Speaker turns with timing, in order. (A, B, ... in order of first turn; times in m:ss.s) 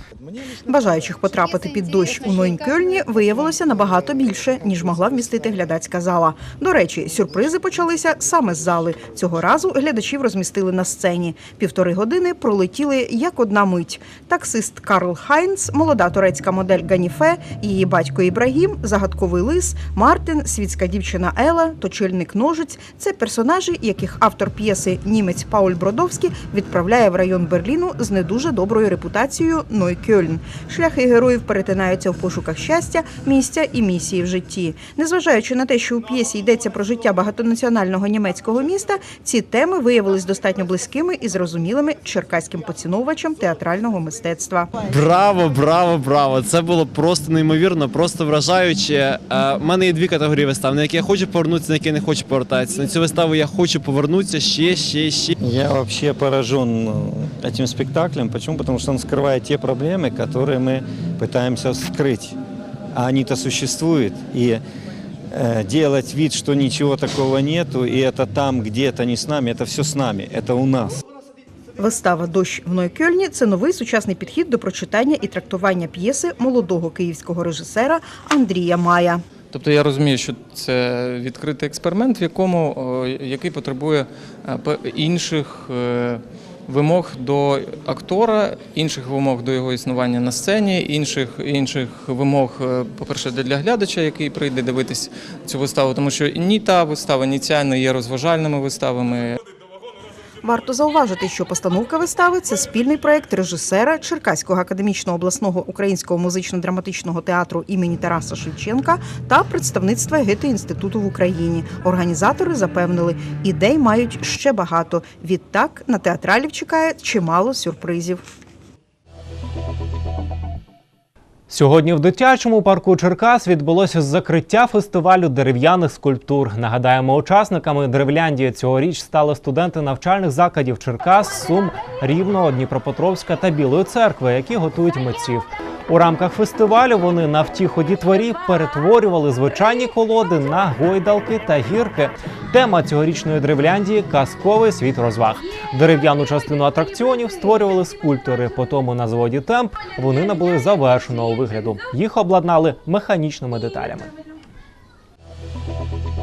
0:00.7-0:44.7 A
0:44.9-0:55.4 B
0:55.4-1:02.4 C
1:02.9-1:04.6 C
1:05.3-1:11.0 C
1:11.8-1:19.2 A
1:19.5-1:39.4 D
1:40.4-1:58.2 A
2:01.5-2:34.1 E